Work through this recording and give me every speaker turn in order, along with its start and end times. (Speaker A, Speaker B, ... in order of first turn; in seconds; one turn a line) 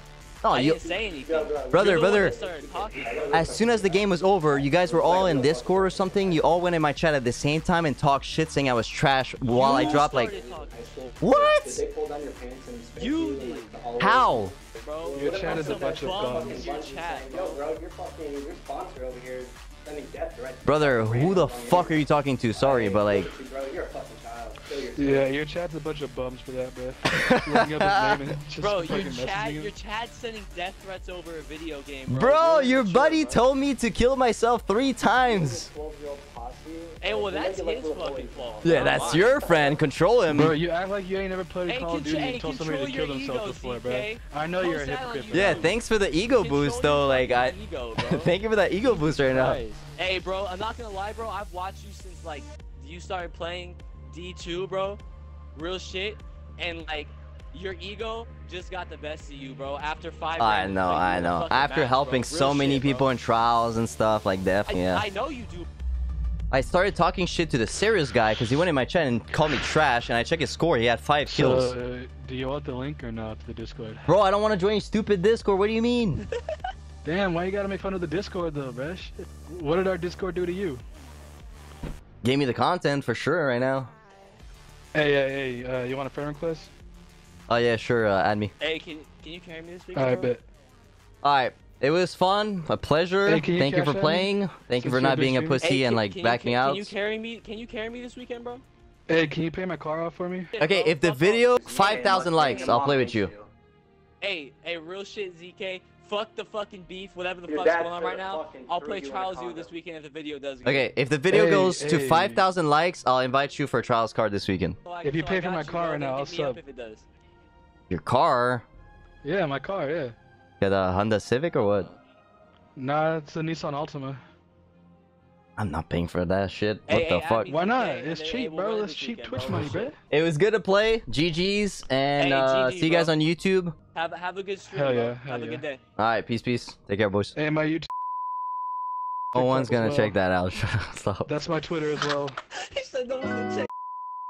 Speaker A: 0.4-0.9
Speaker B: 0.5-3.6
Speaker C: 0.8-6.5
Speaker A: 1.7-2.4
Speaker A: 3.3-10.3
Speaker C: 9.5-22.0
Speaker B: 9.5-11.0
Speaker A: 11.2-11.8
Speaker B: 12.9-13.8
Speaker A: 14.0-14.5
Speaker B: 14.8-17.6
Speaker D: 15.1-16.7
Speaker A: 20.7-23.3
Speaker C: 22.6-25.3
Speaker D: 25.0-29.7
Speaker A: 27.1-28.2
Speaker B: 28.6-32.3
Speaker A: 32.1-35.7
Speaker C: 32.2-33.2
Speaker B: 33.0-33.4
Speaker C: 35.2-39.8
Speaker B: 37.0-39.5
Speaker A: 38.6-40.5
Speaker D: 40.3-45.7
Speaker B: 41.7-45.7
Speaker A: 45.3-49.6
Speaker B: 46.3-55.0
Speaker B: 55.5-63.1
Speaker A: 60.4-65.0
Speaker B: 64.7-65.7
Speaker A: 66.5-71.7
Speaker D: 71.3-74.1
Speaker A: 74.1-76.2
Speaker B: 76.3-76.7
Speaker D: 77.0-80.8
Speaker A: 82.2-83.9
Speaker D: 84.9-86.7
Speaker A: 87.5-88.5
Speaker B: 88.6-90.3
Speaker D: 90.0-90.4
Speaker A: 91.2-97.0
Speaker D: 93.2-95.7
Speaker B: 95.6-98.6
Speaker D: 99.1-100.6
Speaker B: 100.5-102.8
Speaker A: 100.6-103.3
Speaker C: 101.7-103.5
Speaker B: 104.2-110.9
Speaker C: 107.5-109.7
Speaker A: 110.7-114.8
Speaker D: 111.3-112.5
Speaker B: 114.8-117.1
Speaker D: 115.0-116.6
Speaker A: 117.9-118.7
Speaker D: 119.2-120.2
Speaker A: 120.6-121.9
Speaker D: 122.8-124.2
Speaker A: 125.6-127.5
Speaker B: 126.9-129.9
Speaker D: 127.5-130.0
Speaker A: 130.1-133.7
Speaker B: 132.2-133.1
Speaker B: 133.9-135.8
Speaker D: 134.7-135.6
Speaker A: 136.0-137.3
Speaker D: 137.4-137.9
Speaker D: 139.3-140.2
Speaker A: 139.3-141.3
Speaker D: 141.3-142.4
Speaker B: 142.5-143.7